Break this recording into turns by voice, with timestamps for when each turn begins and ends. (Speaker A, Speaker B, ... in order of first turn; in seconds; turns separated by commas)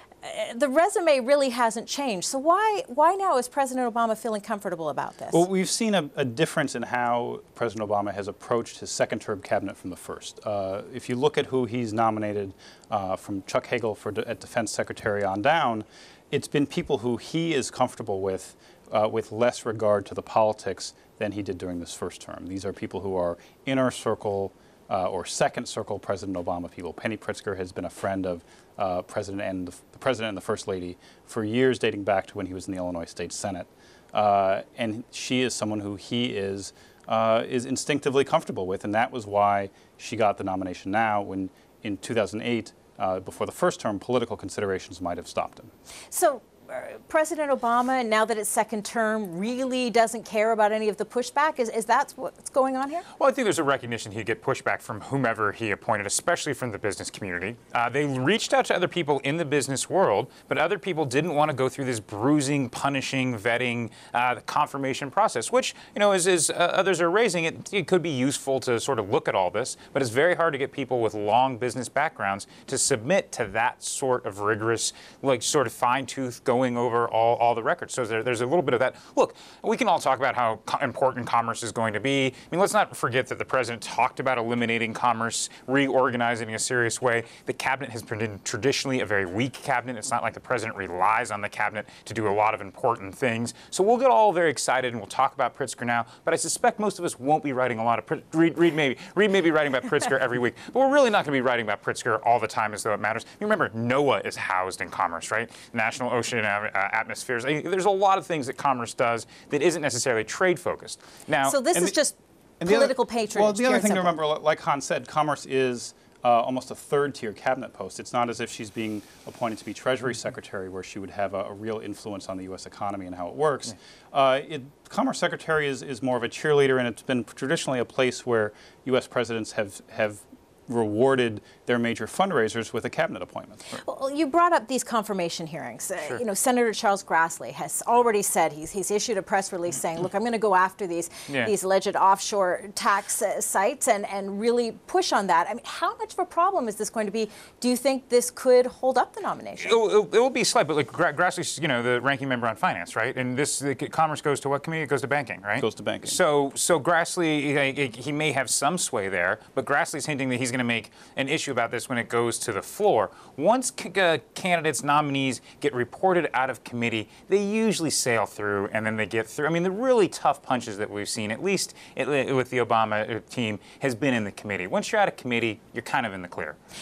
Speaker A: 0.2-5.5, Speaker B: 5.3-45.7, Speaker A: 46.1-53.0, Speaker C: 53.2-111.6, Speaker A: 111.4-114.2, Speaker B: 112.6-133.8, Speaker A: 133.8-149.8, Speaker C: 149.6-176.6, Speaker B: 155.6-156.2